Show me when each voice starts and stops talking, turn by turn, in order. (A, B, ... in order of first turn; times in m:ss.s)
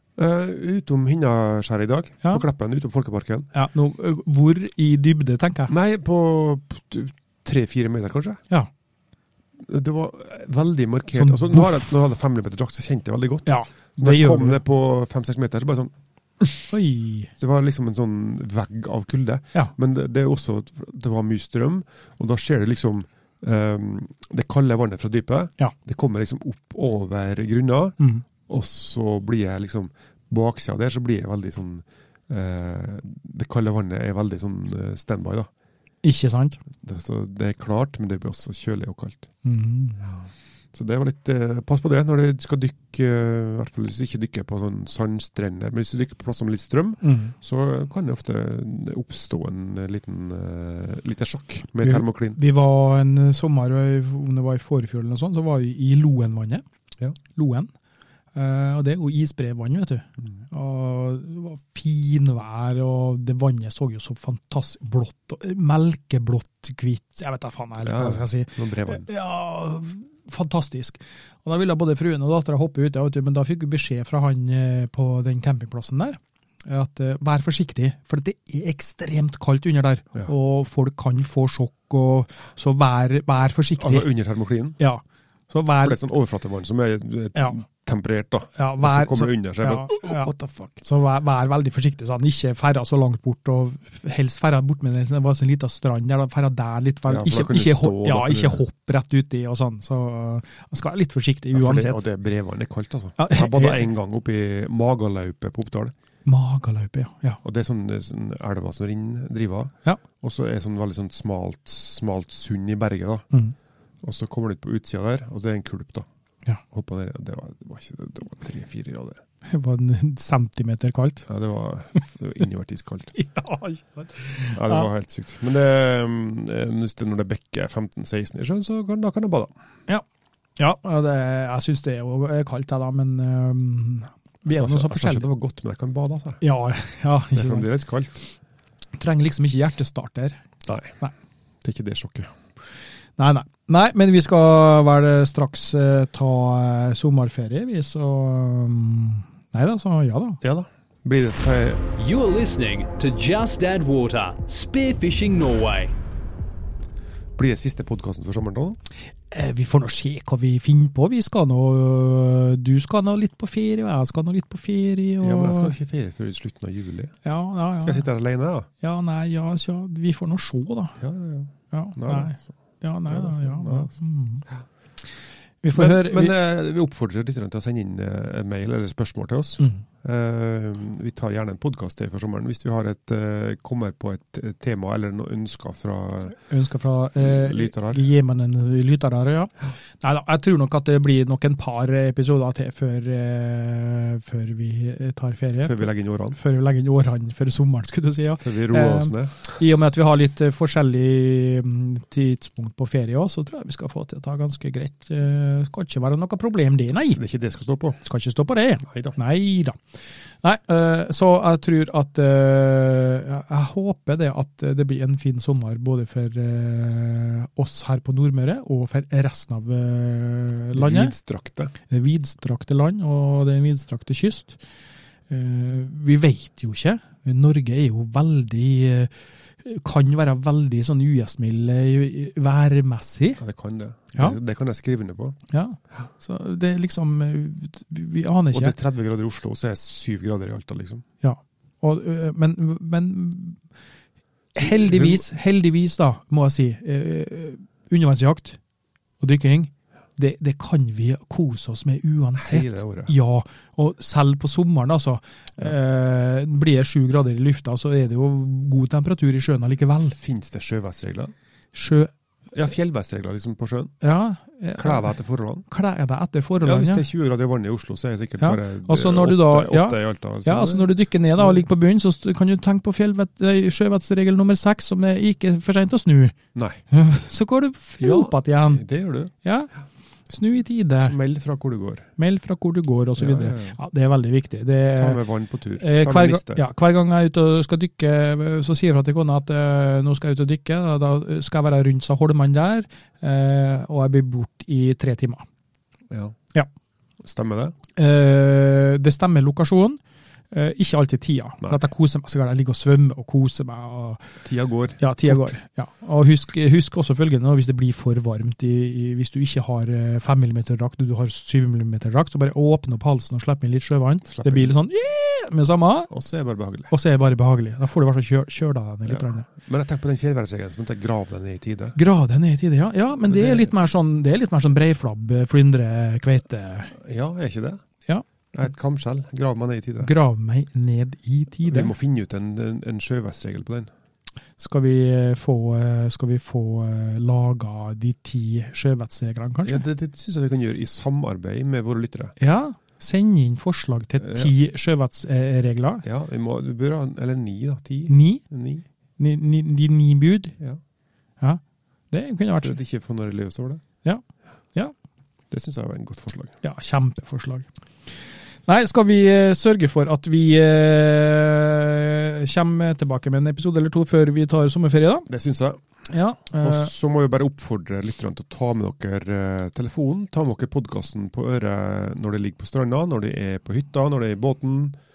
0:00.2-0:03.5 A
0:03.5-0:05.7 B
0:05.7-0:08.4 A
0:09.6-0:16.6 A
0:11.1-0:11.8 B
0:13.4-0:14.6 B
0:16.7-0:17.3 B
0:17.4-0:35.5 A
0:28.0-0:28.2 B
0:36.0-0:36.6 B
0:36.8-0:39.3 A
0:39.4-0:40.1 B
0:40.7-0:52.4 A
0:47.0-0:47.3 B
0:51.8-0:56.6 B
0:57.3-0:57.7 B
0:58.3-1:24.1 B
1:07.8-1:09.0 A
1:23.8-1:24.8 A
1:24.8-1:26.0 B
1:25.8-1:30.8 A
1:28.5-1:30.3 B
1:30.8-1:42.0 B
1:37.1-1:38.6 A
1:41.5-1:45.9 A
1:43.2-1:43.9 B
1:46.2-1:47.4 B
1:47.4-1:53.3 A
1:54.0-1:56.1 A
1:56.7-1:59.2 A
1:59.5-2:01.3 B
2:01.3-2:03.1 A
2:03.1-2:04.9 B
2:04.5-2:09.5 A
2:10.6-2:15.3 B
2:14.4-2:16.4 A
2:16.4-2:17.7 B
2:17.3-2:18.2 A
2:19.0-2:20.4 B
2:20.6-2:21.0 A
2:21.6-2:22.3 A
2:23.2-2:30.4 B
2:30.4-2:31.8 A
2:32.0-2:35.9 C
2:37.4-2:38.8 A
2:39.3-2:45.7 B
2:45.2-2:47.2 A
2:47.2-2:48.0 B
2:47.8-2:48.7 A
2:48.8-2:51.0 B
2:51.0-2:52.4 A
2:51.7-2:54.4 B
2:53.1-2:53.9 A
2:55.6-2:56.3 B
2:55.7-3:06.4 A
3:06.4-3:27.2 B
3:07.2-3:08.1 A
3:15.6-3:16.4 A
3:18.4-3:19.4 A
3:27.0-3:28.0 A
3:28.0-3:29.8 B
3:28.8-3:29.1 A
3:30.4-3:41.1 B
3:40.7-3:41.7 A
3:41.9-3:44.6 B
3:45.3-3:49.1 B
3:49.6-3:53.4 B
3:53.4-3:55.4 A
3:55.5-3:58.8 B
3:58.5-4:01.0 A
4:01.2-4:03.6 B
4:04.6-4:08.6 B
4:04.6-4:05.2 A
4:09.2-4:20.2 B
4:12.4-4:13.1 A
4:20.2-4:21.3 A
4:21.7-4:22.1 B
4:22.5-4:23.9 A
4:24.0-4:25.1 B
4:24.8-4:25.6 A
4:25.7-4:27.0 B
4:26.6-4:31.6 A
4:28.4-4:38.8 B
4:36.5-4:36.8 A
4:38.0-4:39.3 A
4:39.4-4:39.7 B
4:40.3-4:41.1 B
4:41.0-4:42.1 A
4:42.2-4:45.2 B
4:43.2-4:43.8 A
4:45.0-4:46.6 A
4:45.8-4:55.4 B
4:56.1-4:56.4 A
4:57.2-4:57.7 A
4:58.0-5:00.0 B
5:00.5-5:04.2 B
5:04.4-5:05.5 A
5:05.0-5:16.1 B
5:14.2-5:14.7 A
5:16.1-5:16.9 A
5:16.9-5:19.5 B
5:19.1-5:22.0 A
5:21.9-5:26.9 B
5:23.2-5:23.7 A
5:27.0-5:27.8 A
5:28.5-5:30.1 A
5:30.0-5:31.9 B
5:31.7-5:33.9 A
5:34.6-5:39.8 B
5:39.6-5:42.3 A
5:42.4-5:46.0 B
5:44.2-5:44.5 A
5:46.0-5:48.8 A
5:48.1-5:48.4 B
5:49.2-5:50.6 B
5:51.4-5:52.8 B
5:52.6-5:53.8 A
5:55.5-5:56.6 A
5:56.6-5:57.7 B
5:58.7-6:05.3 B
6:05.3-6:05.8 A
6:06.1-6:06.9 B
6:06.6-6:15.0 A